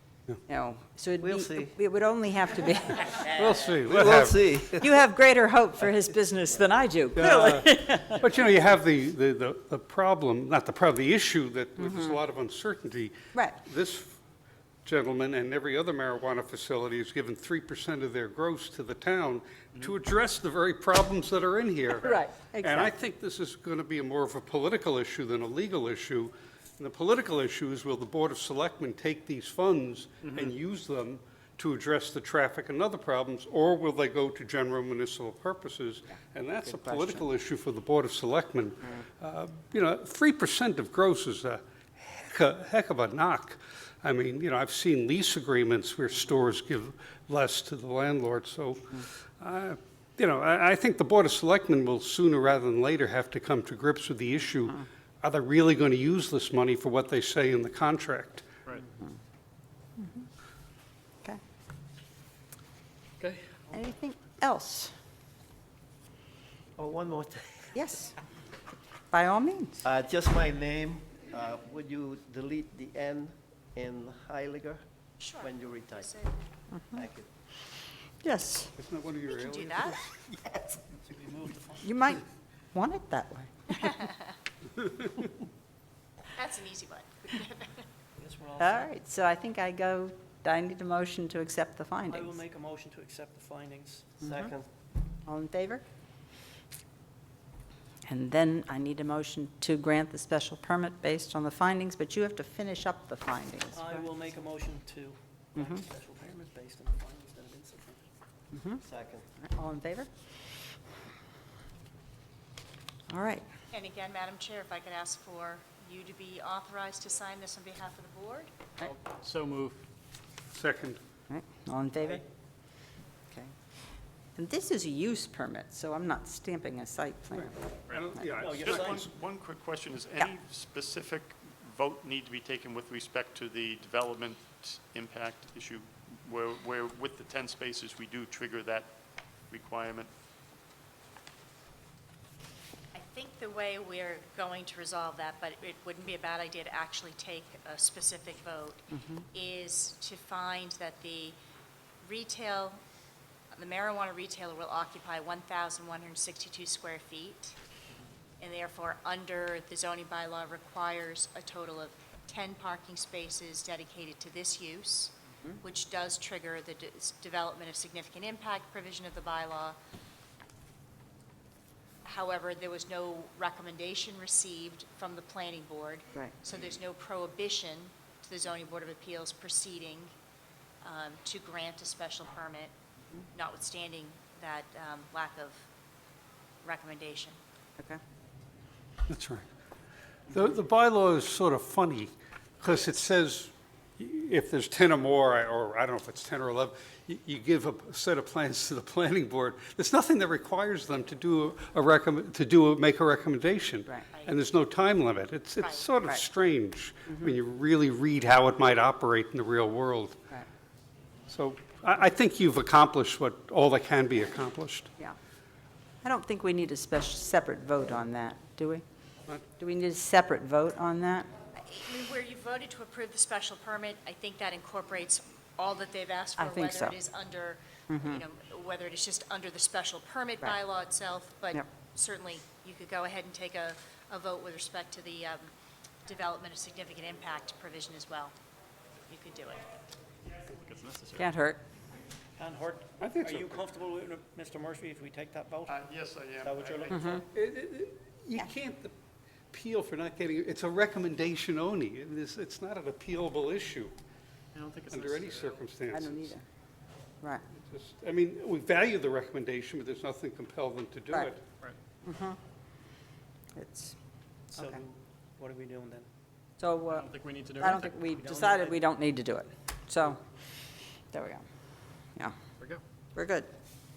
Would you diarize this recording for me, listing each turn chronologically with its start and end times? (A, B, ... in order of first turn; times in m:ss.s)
0:00.5-0:03.2 A
0:01.2-0:01.7 B
0:03.2-0:04.4 C
0:03.9-0:04.8 B
0:04.8-0:08.2 A
0:07.2-0:14.2 C
0:11.8-0:12.2 A
0:14.8-0:58.5 C
0:22.0-0:22.9 A
0:36.7-0:37.2 A
1:00.0-1:00.2 A
1:03.2-1:03.6 D
1:03.7-1:04.9 A
1:06.8-1:07.7 B
1:07.7-1:08.2 A
1:09.1-1:09.9 A
1:09.8-1:14.8 B
1:15.4-1:16.3 B
1:16.9-1:17.3 B
1:18.2-1:18.7 A
1:18.8-1:20.0 C
1:19.5-1:20.0 E
1:20.8-1:22.0 F
1:21.8-1:24.0 A
1:26.4-1:27.9 E
1:28.2-1:28.9 F
1:28.6-1:32.4 A
1:32.1-1:34.2 F
1:34.2-1:34.7 B
1:35.2-1:35.8 A
1:38.1-1:44.1 A
1:43.8-1:48.1 F
1:45.6-1:45.8 A
1:48.5-1:48.8 A
1:48.8-1:49.3 B
1:49.4-1:50.1 A
1:53.1-1:53.5 A
1:53.7-1:58.5 E
1:58.8-1:59.8 D
2:00.5-2:01.0 C
2:01.3-2:02.2 A
2:04.4-2:07.6 A
2:07.3-2:09.0 C
2:08.4-2:09.0 F
2:08.6-2:18.9 G
2:19.5-2:20.1 G
2:22.9-2:31.4 E
2:28.9-2:29.2 A
2:32.0-2:32.8 E
2:33.5-2:37.6 E
2:38.4-2:49.8 E
2:52.0-3:00.1 E
3:00.8-3:02.7 E
3:03.3-3:05.6 E
3:06.6-3:07.4 E
3:09.1-3:09.5 C
3:10.3-3:30.2 C
3:31.3-3:34.9 C
3:36.0-3:38.8 A
3:39.6-3:41.3 A
3:41.6-3:55.5 E
3:46.4-3:47.0 A
3:47.9-3:48.2 A
3:56.1-3:58.3 E
3:59.1-3:59.6 E
4:00.7-4:01.2 D
4:01.2-4:01.6 A
4:02.4-4:05.8 F
4:03.0-4:03.6 C
4:05.7-4:07.2 G
4:06.4-4:07.1 F
4:06.9-4:07.2 A
4:07.3-4:08.9 C
4:09.5-4:13.9 C
4:14.6-4:15.6 D
4:14.9-4:16.3 C
4:15.9-4:16.4 A
4:17.6-4:21.4 C
4:22.0-4:22.4 A
4:23.6-4:24.0 A
4:24.5-4:26.1 F
4:26.6-4:30.2 A
4:26.9-4:28.7 D
4:31.1-4:31.4 A
4:33.2-4:33.5 A